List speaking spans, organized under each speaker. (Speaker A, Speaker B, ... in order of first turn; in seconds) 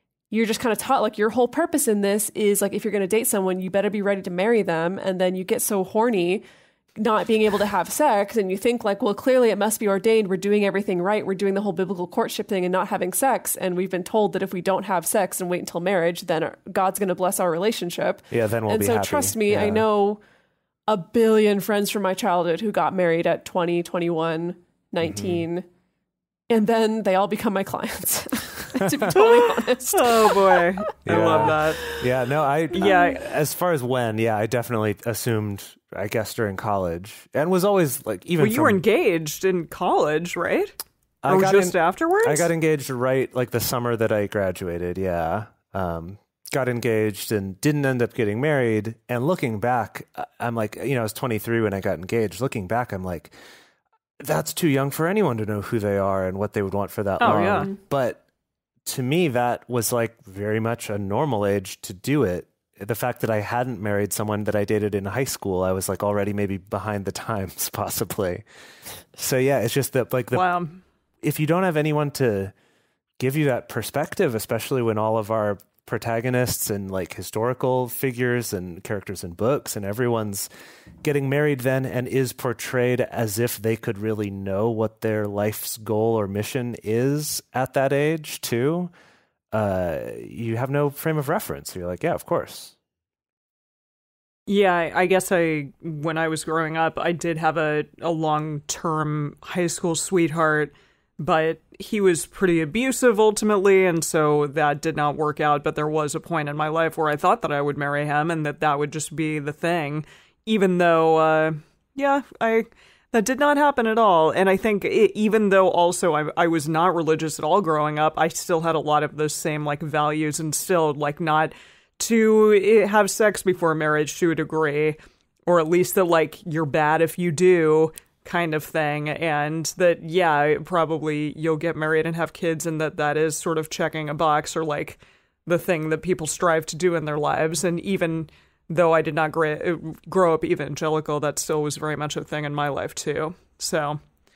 Speaker A: 0.3-6.4, 7.0-20.2, 20.9-25.7, 26.5-30.7, 31.3-32.0, 32.8-33.2, 57.4-57.7
Speaker B: 18.3-19.8, 25.0-25.4, 28.8-29.1, 31.1-38.8, 41.2-53.3, 54.2-58.2, 58.9-68.5, 69.2-70.5, 71.2-72.5, 73.2-80.5, 81.0-88.9, 89.5-92.8
Speaker C: 29.2-31.8, 32.8-33.1, 38.4-40.7, 41.3-42.5, 57.2-57.7, 70.3-70.8, 94.5-144.0